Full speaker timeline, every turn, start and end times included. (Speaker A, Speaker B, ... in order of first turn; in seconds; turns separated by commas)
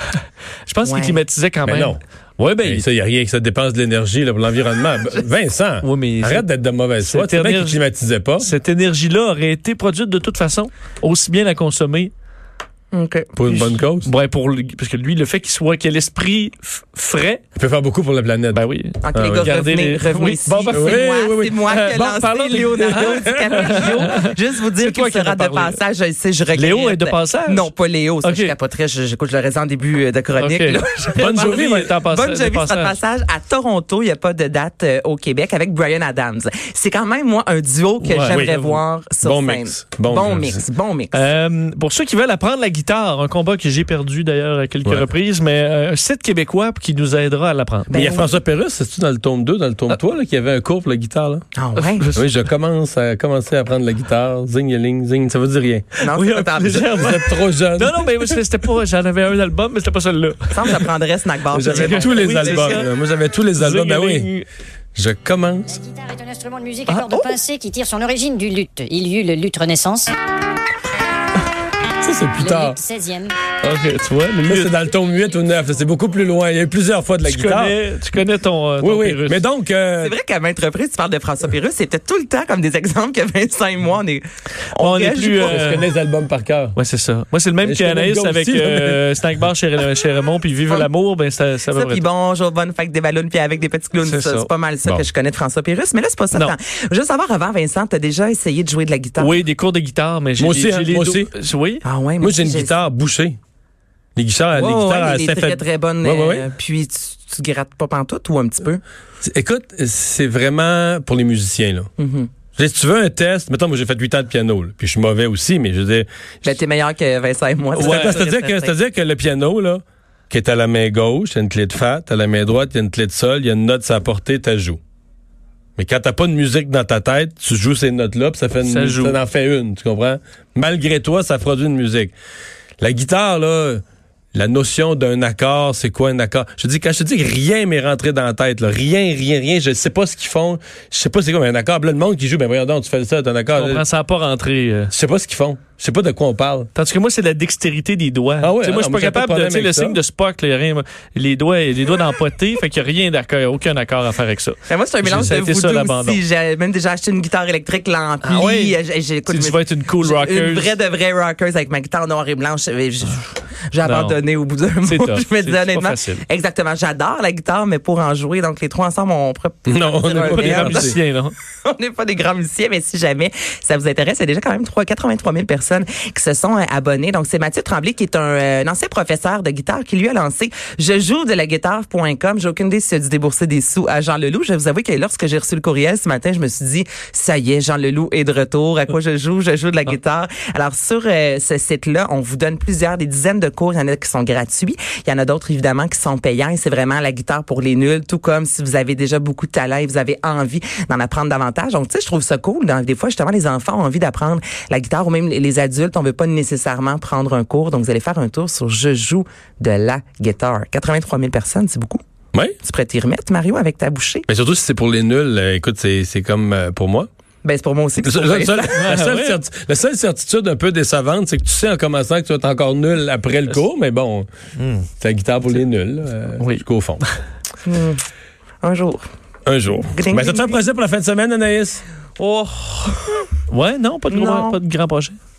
Speaker A: 0.7-2.9, Speaker B: 0.8-1.2, Speaker C: 1.7-2.0, Speaker C: 2.6-8.5, Speaker A: 5.8-6.5, Speaker A: 7.0-7.8, Speaker A: 8.4-12.1, Speaker B: 12.9-13.4, Speaker C: 13.4-14.1, Speaker A: 13.5-17.4, Speaker C: 17.6-18.6, Speaker A: 18.5-25.8, Speaker B: 19.0-41.3, Speaker C: 19.1-19.6, Speaker C: 20.7-24.1, Speaker A: 26.6-27.7, Speaker A: 28.2-28.6, Speaker A: 30.4-33.0, Speaker C: 31.2-31.9, Speaker A: 38.0-38.7, Speaker C: 38.3-40.6, Speaker A: 41.1-48.0, Speaker B: 47.9-48.3, Speaker C: 47.9-51.5, Speaker B: 51.5-52.0, Speaker A: 51.8-52.3, Speaker C: 52.1-55.9, Speaker B: 56.0-56.9, Speaker A: 56.0-60.9, Speaker C: 57.0-58.4, Speaker B: 60.5-62.9, Speaker C: 61.5-64.3, Speaker A: 61.6-62.9, Speaker A: 63.6-64.5, Speaker C: 65.0-65.8, Speaker D: 65.7-70.1, Speaker A: 66.9-67.3, Speaker C: 72.0-72.8, Speaker D: 72.4-73.4, Speaker A: 73.6-74.7, Speaker C: 74.5-77.8, Speaker A: 77.3-79.4, Speaker C: 78.8-80.2, Speaker B: 80.0-85.7, Speaker A: 84.8-85.9, Speaker C: 85.4-86.8, Speaker A: 86.8-92.0, Speaker C: 87.6-89.0, Speaker B: 91.7-99.3, Speaker A: 94.0-94.5, Speaker A: 99.2-101.8, Speaker C: 100.4-101.3, Speaker B: 101.8-102.8, Speaker C: 102.2-103.4, Speaker C: 104.2-106.5, Speaker B: 104.5-108.8, Speaker C: 109.2-111.9, Speaker B: 112.0-112.3, Speaker C: 112.6-116.1, Speaker B: 116.4-118.8, Speaker A: 117.8-118.2, Speaker C: 117.8-124.8, Speaker C: 125.8-132.1, Speaker A: 128.6-129.2, Speaker C: 132.8-133.8, Speaker C: 134.3-143.8, Speaker A: 143.6-144.9, Speaker C: 144.9-146.7, Speaker A: 146.8-156.2, Speaker C: 148.4-150.0, Speaker B: 154.7-171.0, Speaker A: 158.2-160.8, Speaker A: 163.8-164.2, Speaker A: 164.8-166.2, Speaker C: 169.7-171.0, Speaker A: 170.2-171.3, Speaker B: 171.6-212.0, Speaker B: 212.6-214.3, Speaker C: 214.3-217.1, Speaker B: 217.4-218.8, Speaker C: 218.0-224.3, Speaker A: 218.8-219.4, Speaker A: 224.6-224.9, Speaker C: 225.0-227.0, Speaker A: 226.4-227.1, Speaker B: 227.7-228.0, Speaker B: 228.6-229.0, Speaker C: 229.5-231.8, Speaker B: 229.9-230.6, Speaker B: 232.2-233.3, Speaker A: 233.5-235.2, Speaker B: 234.1-234.6